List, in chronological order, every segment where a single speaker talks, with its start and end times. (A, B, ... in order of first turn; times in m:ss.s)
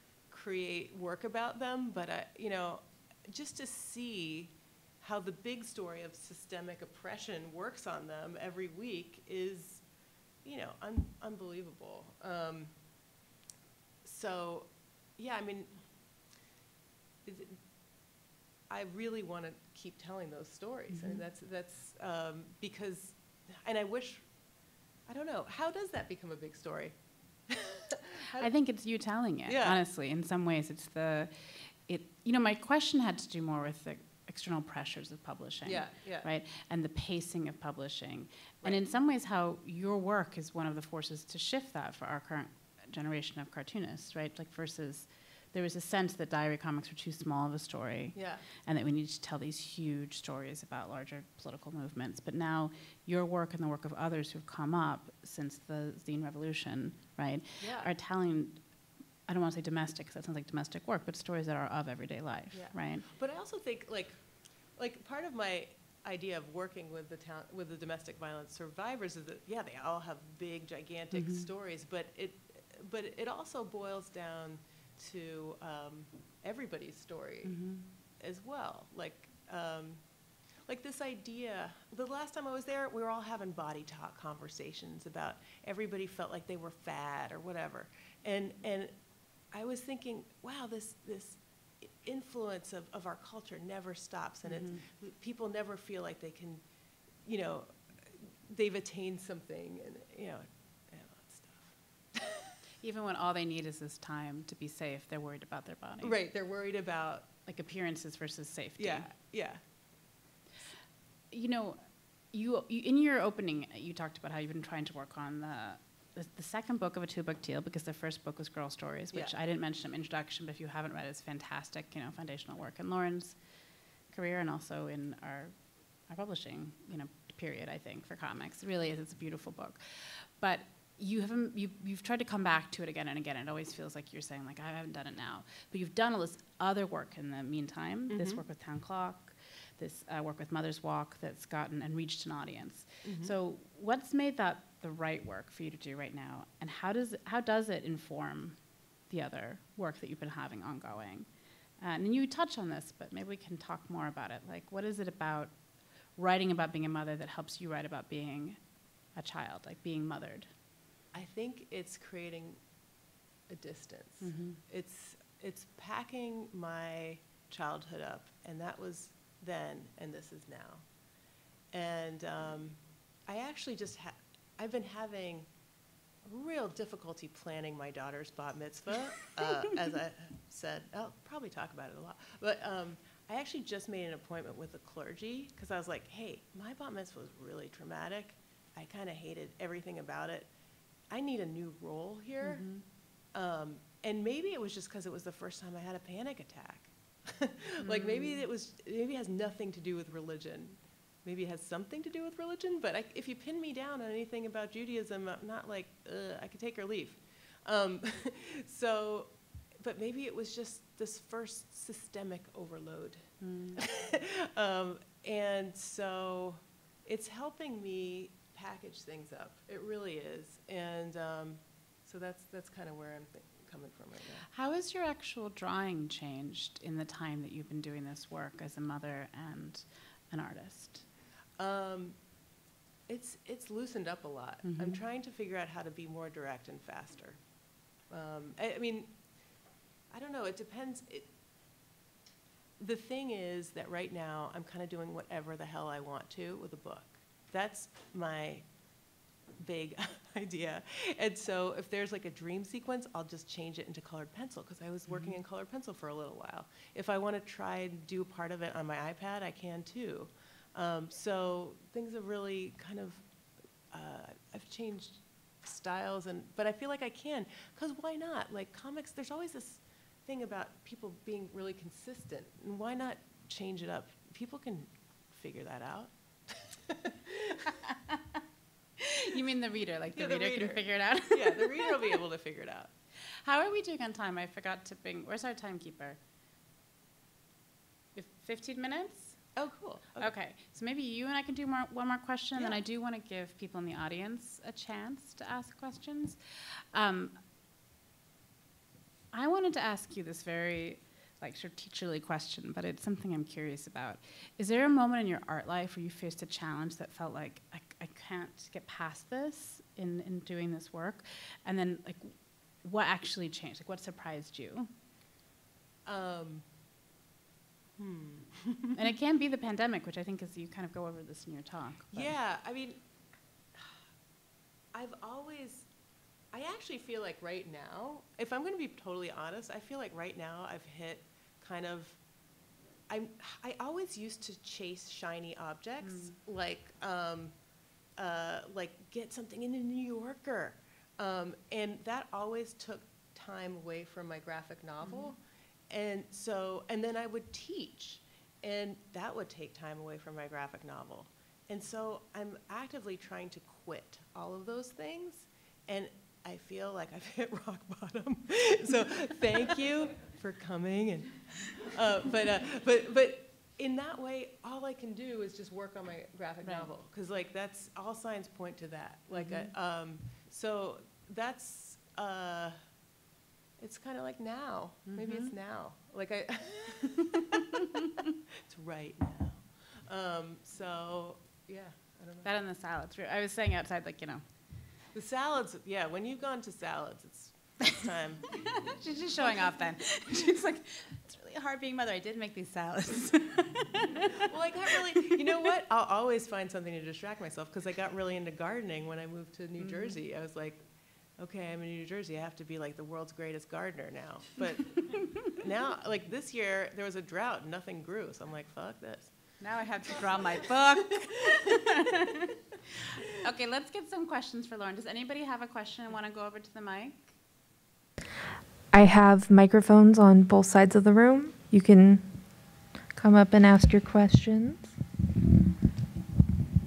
0:00.3-0:09.8 A
0:10.4-0:12.7 A
0:14.0-0:15.7 A
0:17.2-0:17.6 A
0:18.7-0:24.3 A
0:20.9-0:21.2 B
0:25.1-0:27.0 A
0:27.5-0:28.5 A
0:28.4-0:58.6 B
0:29.5-0:29.8 A
0:35.7-0:36.3 A
0:48.2-0:48.4 A
0:57.6-0:57.9 A
0:59.3-1:03.1 B
1:02.5-1:04.2 A
1:04.8-1:17.6 A
1:11.1-1:11.5 B
1:17.4-1:17.9 B
1:18.2-1:20.0 A
1:20.7-1:28.9 A
1:29.5-1:36.6 A
1:34.4-1:34.8 B
1:37.2-1:42.5 A
1:42.8-1:46.2 B
1:46.0-1:47.3 A
1:47.5-1:49.1 B
1:48.8-1:49.6 A
1:51.3-1:51.8 B
1:52.3-2:03.4 B
2:04.1-2:05.5 B
2:06.1-2:28.6 B
2:18.1-2:18.4 A
2:23.0-2:23.3 A
2:29.1-2:31.3 B
2:31.8-2:35.5 B
2:36.2-2:38.6 B
2:39.2-2:40.5 B
2:41.1-2:42.6 A
2:43.5-2:50.8 A
2:44.2-2:44.6 B
2:51.7-2:55.5 A
2:56.2-3:10.5 A
3:11.1-3:12.7 A
3:12.4-3:12.8 B
3:13.3-3:44.5 A
3:17.8-3:18.4 B
3:33.4-3:33.8 B
3:44.5-3:51.0 B
3:51.6-3:52.2 A
3:53.1-3:57.4 A
3:54.6-3:55.0 B
3:58.1-3:59.2 A
4:00.1-4:01.3 A
4:02.8-4:08.6 A
4:09.6-4:23.2 A
4:15.1-4:15.4 B
4:23.9-4:37.7 A
4:37.8-4:38.2 B
4:39.0-4:42.0 B
4:40.2-4:42.9 A
4:43.2-4:46.2 B
4:48.2-4:49.4 B
4:49.6-4:50.3 A
4:50.2-4:57.4 B
4:59.3-5:14.9 B
5:16.1-5:16.6 A
5:18.0-5:19.0 A
5:19.0-5:22.4 B
5:22.1-5:23.0 A
5:24.9-5:25.9 A
5:26.5-5:32.2 A
5:33.1-5:37.5 A
5:36.0-5:36.4 B
5:38.2-5:45.4 A
5:45.0-5:45.4 B
5:45.9-6:12.8 A
6:06.6-6:06.9 B
6:09.3-6:09.7 B
6:13.8-6:17.9 A
6:15.1-6:15.5 B
6:18.6-6:22.5 A
6:22.4-6:24.4 B
6:25.1-6:28.6 A
6:28.5-6:35.5 B
6:29.4-6:29.8 A
6:34.4-6:40.8 A
6:39.8-6:40.2 B
6:41.4-6:49.3 A
6:49.6-6:52.6 B
6:50.1-6:50.7 A
6:51.5-6:51.8 A
6:53.3-6:57.4 B
6:58.9-7:02.4 C
7:03.1-7:04.9 C